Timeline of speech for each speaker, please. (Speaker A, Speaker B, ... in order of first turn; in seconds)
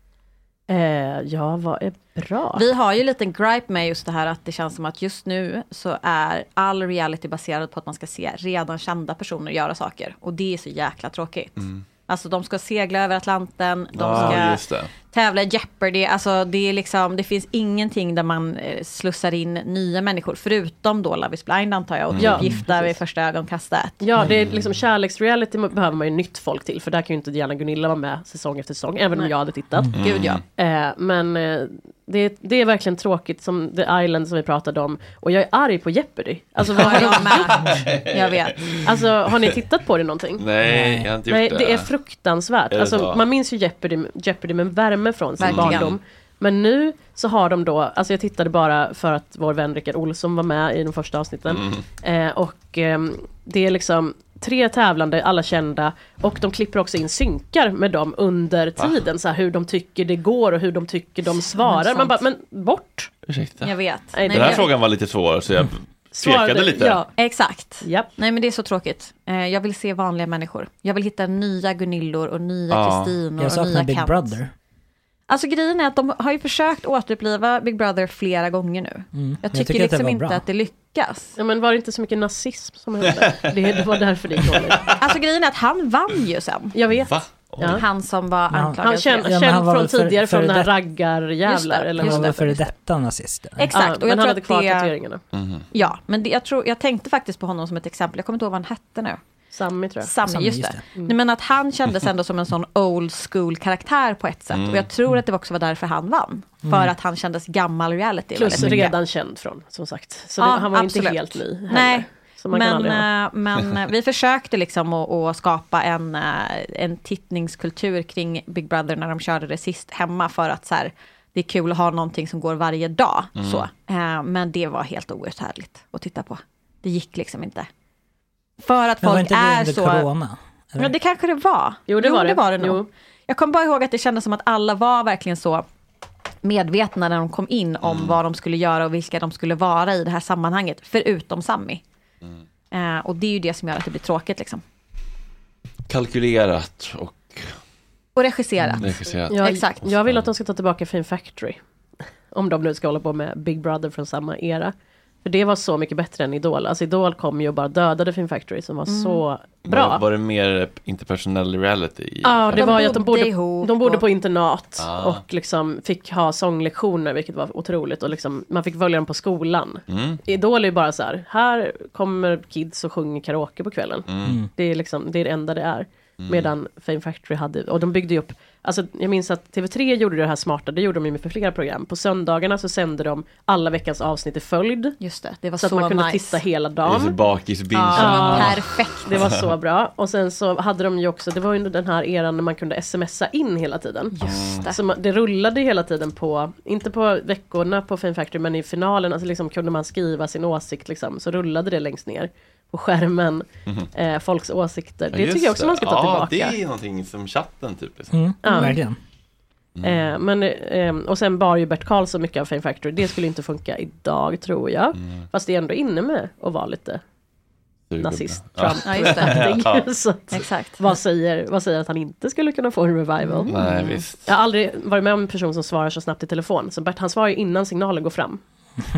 Speaker A: 0.7-2.7, 22.2-23.0, 24.0-29.9, 30.5-37.5, 38.8-40.5, 41.2-63.1, 64.1-64.7, 66.1-67.1, 67.8-68.2, 81.4-85.0, 86.7-87.8, 88.8-92.7, 93.7-95.2, 99.5-100.1, 108.3-113.1, 131.9-132.9, 149.3-151.6, 152.3-154.7, 155.2-160.0, 162.2-185.0, 185.6-187.2, 188.0-194.2, 194.7-206.6, 208.4-208.8, 209.8-217.0, 218.0-228.4
Speaker B: 2.5-24.2, 29.9-30.4, 36.6-38.7, 45.4-45.9, 61.2-62.2, 63.6-64.7, 67.1-74.4, 75.3-81.4, 85.0-86.8, 87.7-89.5, 91.4-92.4, 93.6-94.9, 95.7-99.2, 100.0-109.0, 110.4-127.7, 128.6-130.1, 130.8-135.6, 136.4-141.8, 142.7-144.6, 148.2-149.9, 158.9-159.2, 162.5-164.1, 185.0-186.4, 187.7-189.1, 194.1-194.8, 218.8-219.6, 220.3-220.9, 223.2-224.1
Speaker C: 13.9-14.9, 22.1-22.4, 29.9-30.4, 36.8-38.9, 40.4-41.9, 42.7-43.2, 45.4-46.0, 63.3-63.7, 64.3-67.0, 72.7-73.1, 87.0-87.8, 95.4-95.6, 104.5-104.9, 123.4-123.7, 137.8-138.2, 145.9-147.5, 148.8-150.2, 159.7-162.8, 164.8-165.2, 169.9-170.2, 174.1-174.4, 176.2-176.5, 186.8-188.7, 194.2-194.7, 205.1-208.1, 209.8-210.1, 217.9-219.8, 223.5-224.2
Speaker D: 40.7-41.1, 73.4-74.5, 79.1-80.4, 88.5-90.7, 92.0-93.7, 100.2-100.8, 106.7-106.9, 108.6-108.9, 129.0-130.9, 174.2-174.5, 208.1-209.0